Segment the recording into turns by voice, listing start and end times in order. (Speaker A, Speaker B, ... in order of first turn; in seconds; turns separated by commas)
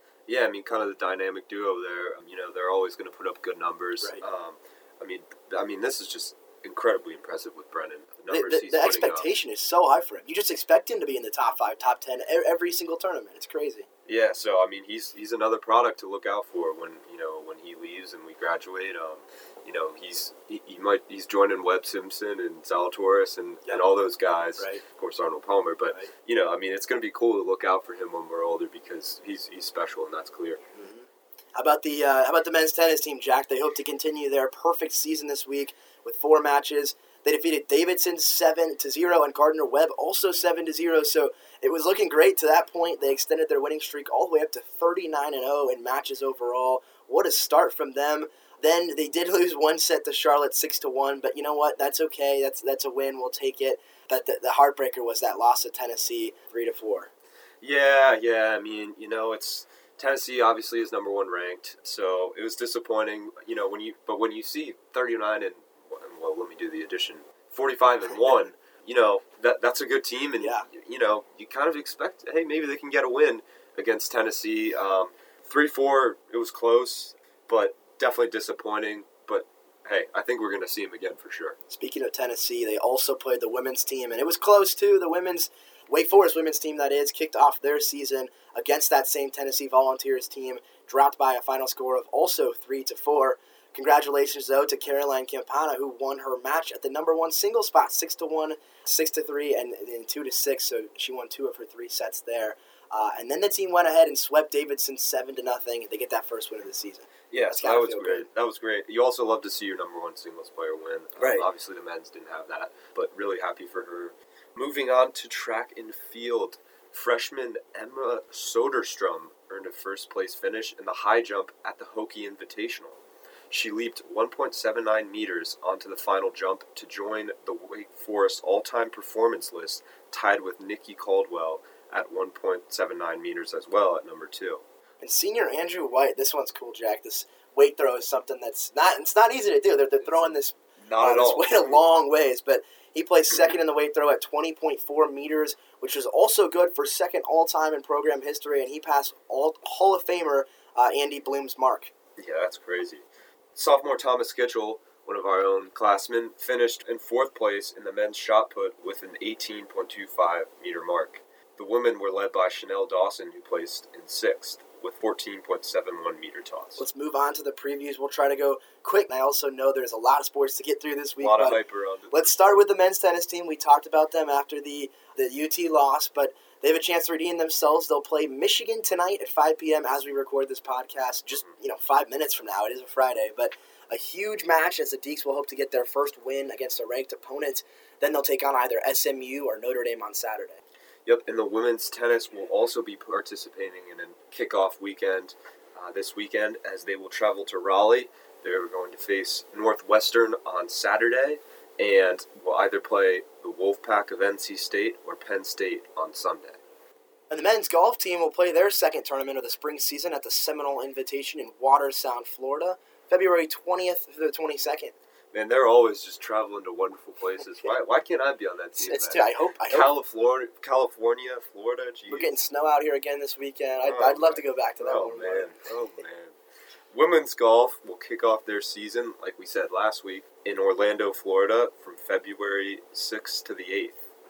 Speaker A: 0.3-9.3, Speaker B: 8.3-13.9, Speaker A: 14.1-30.6, Speaker B: 24.6-24.8, Speaker B: 30.7-57.1, Speaker A: 57.6-81.6, Speaker B: 70.4-70.7, Speaker B: 81.7-108.3, Speaker A: 107.3-134.6, Speaker B: 111.2-111.4, Speaker B: 135.0-151.9, Speaker A: 140.2-141.8, Speaker A: 152.2-166.8, Speaker B: 166.8-171.6, Speaker A: 171.2-172.6, Speaker B: 172.1-190.6, Speaker A: 191.0-206.6, Speaker B: 207.3-214.9, Speaker A: 215.3-222.3, Speaker B: 218.8-219.9, Speaker B: 222.1-225.8, Speaker A: 223.8-226.3, Speaker A: 226.9-234.0